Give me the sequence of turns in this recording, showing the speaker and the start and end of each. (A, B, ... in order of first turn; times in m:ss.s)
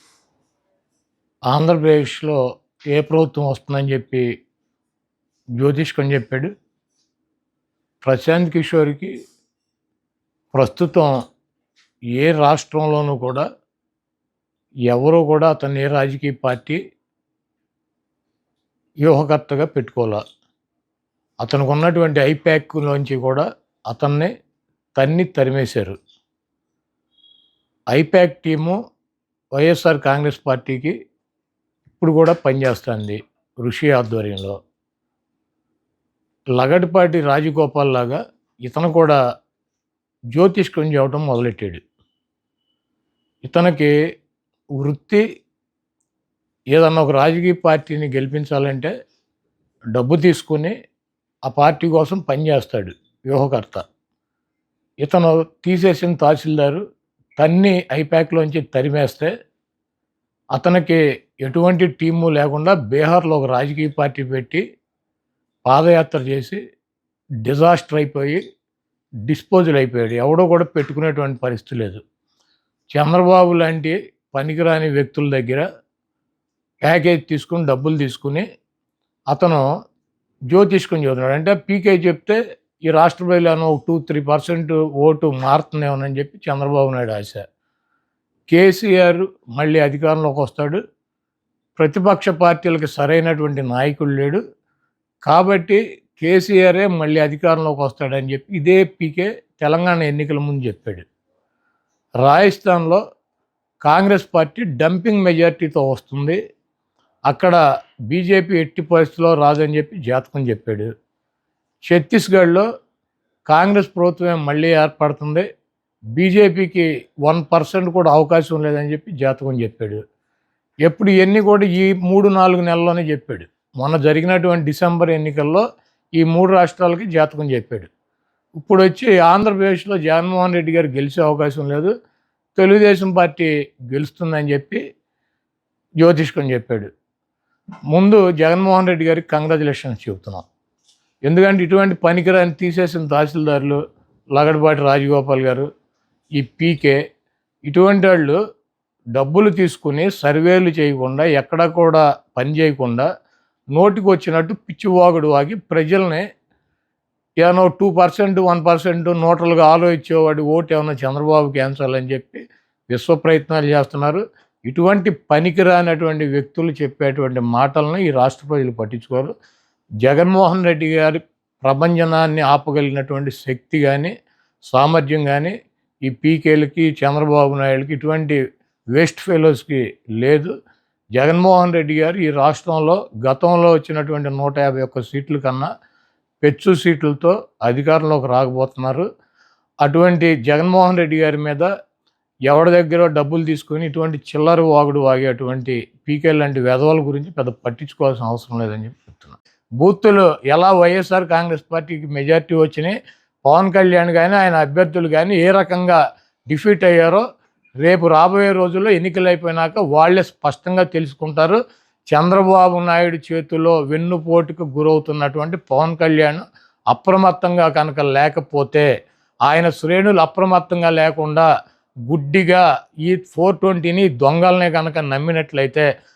0:01.5-0:02.4 A
0:02.9-0:04.2 A
0:05.6-0:06.5 A
0:08.0-0:09.1 A
0:10.5-0:11.1 A
0:12.2-0:13.4 A
0:14.9-0:16.8 A
0:19.0-0:20.2 A
0:21.4-0:24.3 A
0:25.0-0:25.9 A
0:27.9-0:28.8 A
0:29.6-0:30.9 A
0:31.9-0:34.6 A
0:36.6-0:39.2 A
0:40.3-0:41.8 A
0:43.4-0:43.9 A
0:44.8-0:45.2 A
0:46.7-0:48.9 A
0:49.9-0:50.7 A
0:51.4-0:53.8 A
0:55.0-0:56.8 A
0:57.4-0:59.3 A
1:00.5-1:04.6 A
1:05.6-1:06.6 A
1:07.4-1:08.4 A
1:09.3-1:12.0 A
1:12.9-1:15.6 A
1:16.9-1:18.4 A
1:19.3-1:19.6 A
1:20.5-1:27.4 A
1:28.5-1:30.8 A
1:31.8-1:34.4 A
1:35.2-1:41.0 A
1:42.2-1:43.0 A
1:43.8-1:46.4 A
1:47.3-1:47.6 A
1:48.1-1:50.9 A
1:51.9-1:52.6 A
1:53.5-1:55.4 A
1:56.2-2:00.0 A
2:00.8-2:05.6 A
2:06.2-2:07.9 A
2:08.6-2:11.9 A
2:12.6-2:14.8 A
2:16.0-2:16.9 A
2:17.9-2:20.4 A
2:21.2-2:23.8 A
2:24.3-2:25.7 A
2:26.4-2:27.0 A
2:27.7-2:28.4 A
2:29.1-2:33.1 A
2:33.7-2:36.2 A
2:37.4-2:49.3 A
2:50.0-2:54.1 A
2:54.7-2:55.5 A
2:56.0-2:58.4 A
2:58.9-3:00.5 A
3:01.2-3:05.7 A
3:06.4-3:09.0 A
3:09.8-3:11.7 A
3:12.5-3:26.0 A
3:26.5-3:27.2 A
3:27.8-3:31.6 A
3:32.1-3:38.9 A
3:39.5-3:41.5 A
3:42.1-3:45.8 A